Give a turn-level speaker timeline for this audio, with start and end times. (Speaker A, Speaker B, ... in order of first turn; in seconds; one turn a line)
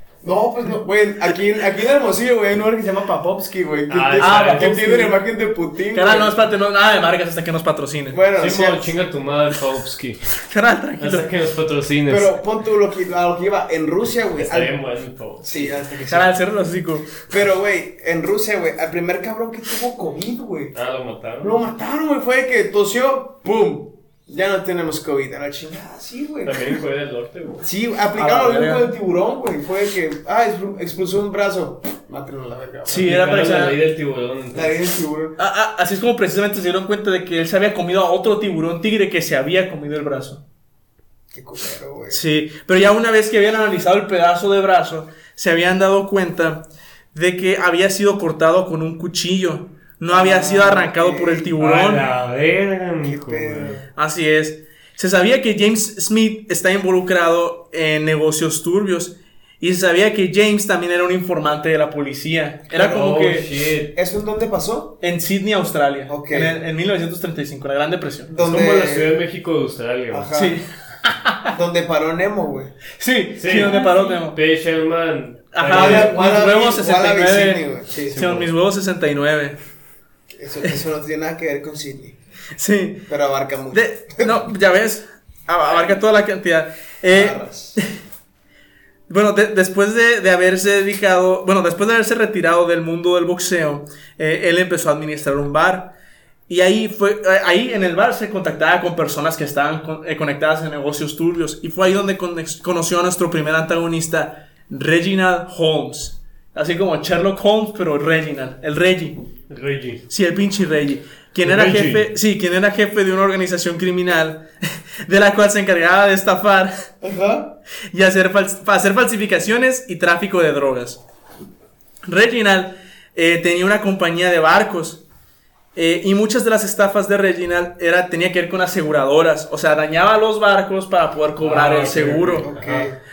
Speaker A: 0.2-6.3
Speaker B: 3.9-5.1
Speaker C: 4.2-5.1
Speaker C: 5.9-8.2
Speaker A: 8.1-8.9
Speaker B: 8.4-10.2
Speaker C: 10.5-11.3
Speaker B: 11.0-12.3
Speaker A: 12.1-14.7
Speaker B: 14.4-15.8
Speaker A: 15.4-16.4
Speaker C: 16.1-17.1
Speaker A: 17.2-20.7
Speaker B: 20.7-21.6
Speaker A: 21.4-26.8
Speaker B: 26.5-27.7
Speaker A: 27.6-33.4
Speaker C: 28.1-28.9
Speaker C: 32.9-33.8
Speaker B: 33.0-34.8
Speaker A: 34.5-35.4
Speaker C: 35.4-40.4
Speaker A: 41.3-42.2
Speaker C: 42.1-52.1
Speaker A: 50.1-51.6
Speaker B: 51.6-53.8
Speaker A: 53.0-53.9
Speaker C: 54.0-63.5
Speaker B: 62.7-63.9
Speaker A: 64.0-65.0
Speaker C: 65.0-68.3
Speaker A: 66.1-66.5
Speaker A: 68.3-69.1
Speaker B: 68.4-70.3
Speaker A: 70.1-70.6
Speaker C: 70.3-71.5
Speaker A: 71.5-72.8
Speaker C: 73.0-74.4
Speaker B: 73.4-76.2
Speaker C: 75.5-79.6
Speaker A: 75.7-78.2
Speaker B: 78.1-78.5
Speaker A: 80.4-82.2
Speaker C: 82.6-83.1
Speaker A: 83.1-84.3
Speaker C: 83.7-87.9
Speaker A: 87.1-87.8
Speaker C: 89.1-95.9
Speaker C: 96.5-109.2
Speaker B: 109.5-110.0
Speaker C: 110.1-114.5
Speaker B: 111.4-112.1
Speaker C: 115.0-116.7
Speaker A: 117.0-117.6
Speaker C: 117.9-121.0
Speaker C: 122.1-125.0
Speaker C: 125.8-132.5
Speaker B: 131.4-132.9
Speaker A: 132.4-133.0